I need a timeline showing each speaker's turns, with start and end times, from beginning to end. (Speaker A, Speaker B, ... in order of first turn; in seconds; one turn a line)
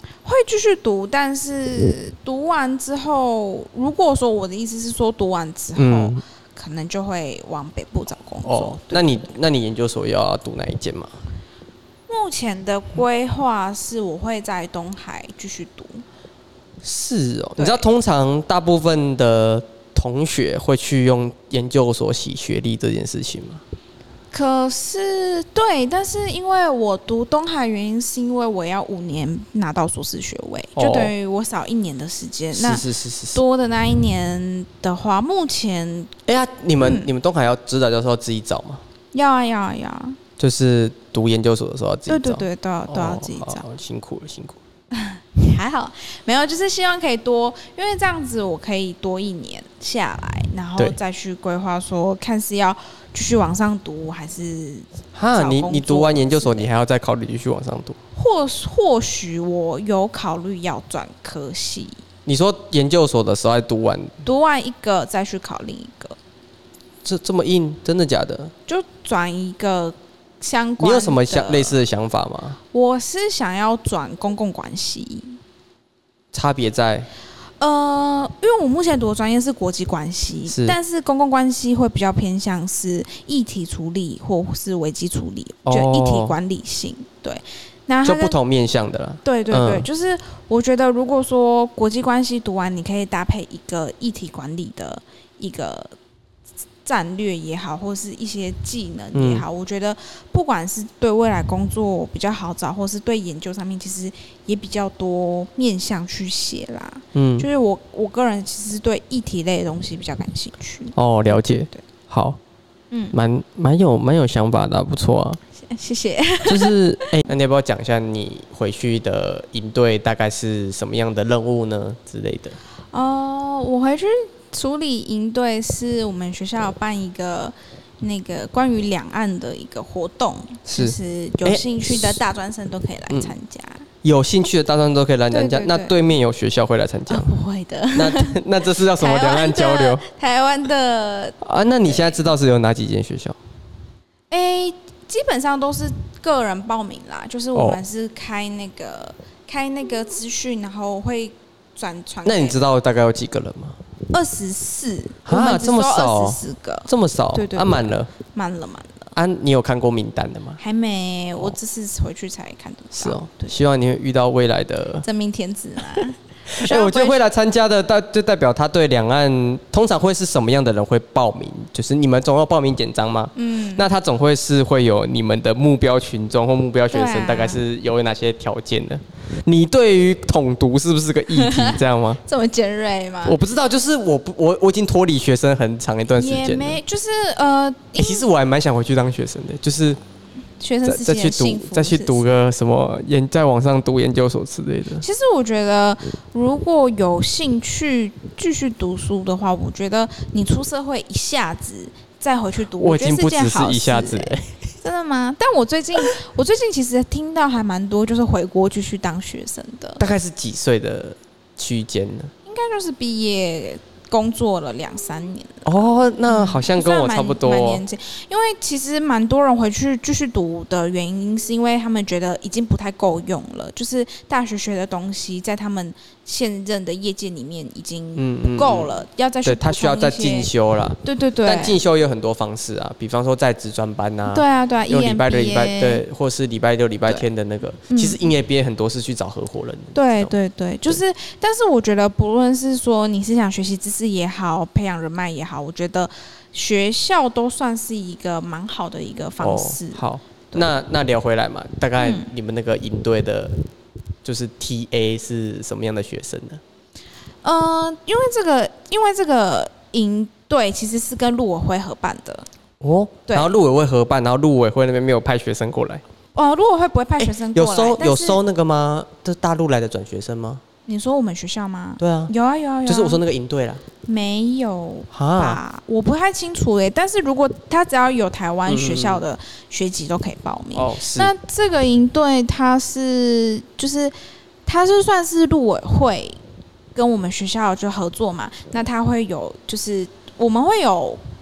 Speaker A: 0.2-9.1
Speaker B: 5.8-6.2
Speaker B: 8.4-11.1
Speaker A: 12.1-16.0
Speaker B: 16.8-23.6
Speaker A: 17.6-17.9
Speaker A: 24.3-36.1
Speaker B: 30.8-31.1
Speaker B: 32.5-33.4
Speaker B: 36.3-38.8
Speaker A: 36.8-37.1
Speaker A: 39.1-40.2
Speaker B: 40.4-44.6
Speaker A: 42.1-43.6
Speaker A: 44.9-56.7
Speaker B: 55.1-58.0
Speaker A: 58.1-62.0
Speaker B: 62.2-64.1
Speaker A: 64.2-66.2
Speaker B: 67.0-68.5
Speaker A: 68.7-71.8
Speaker B: 70.8-72.6
Speaker A: 72.7-75.4
Speaker B: 76.3-77.1
Speaker A: 77.6-88.3
Speaker B: 80.5-80.8
Speaker B: 85.7-86.3
Speaker B: 88.0-89.9
Speaker A: 89.2-95.9
Speaker A: 96.8-110.9
Speaker B: 99.1-99.4
Speaker B: 107.2-107.5
Speaker B: 111.0-112.4
Speaker B: 113.1-115.4
Speaker A: 115.6-117.2
Speaker B: 116.4-122.6
Speaker A: 122.9-133.9
Speaker B: 130.7-132.2
Speaker B: 134.0-137.3
Speaker A: 135.3-135.9
Speaker A: 137.1-142.2
Speaker B: 137.9-140.0
Speaker B: 141.4-143.4
Speaker A: 144.3-152.6
Speaker B: 152.2-153.8
Speaker A: 154.1-159.1
Speaker B: 155.2-158.1
Speaker B: 159.2-160.6
Speaker A: 160.6-163.5
Speaker B: 162.9-165.1
Speaker A: 165.0-167.2
Speaker B: 166.5-182.2
Speaker A: 173.3-173.9
Speaker A: 176.9-177.6
Speaker A: 181.3-183.4
Speaker B: 183.2-186.8
Speaker A: 186.1-188.2
Speaker B: 188.0-190.0
Speaker A: 190.6-192.2
Speaker B: 190.8-195.0
Speaker A: 195.0-210.0
Speaker B: 202.8-204.5
Speaker B: 210.0-212.3
Speaker A: 212.4-215.7
Speaker B: 215.7-217.8
Speaker A: 216.3-230.5
Speaker B: 228.2-228.9
Speaker B: 229.4-240.3
Speaker A: 231.0-231.8
Speaker A: 234.3-236.0
Speaker A: 237.9-238.3
Speaker A: 239.9-250.7
Speaker B: 249.4-253.5
Speaker A: 252.0-252.3
Speaker B: 254.2-256.6
Speaker A: 257.4-262.4
Speaker B: 262.8-266.0
Speaker A: 263.3-263.5
Speaker A: 266.3-268.4
Speaker B: 267.2-270.6
Speaker A: 270.9-273.2
Speaker B: 272.0-272.3
Speaker B: 272.9-273.8
Speaker A: 274.1-284.1
Speaker B: 275.1-275.6
Speaker B: 278.7-279.2
Speaker B: 280.7-281.3
Speaker A: 284.7-286.4
Speaker A: 286.9-291.2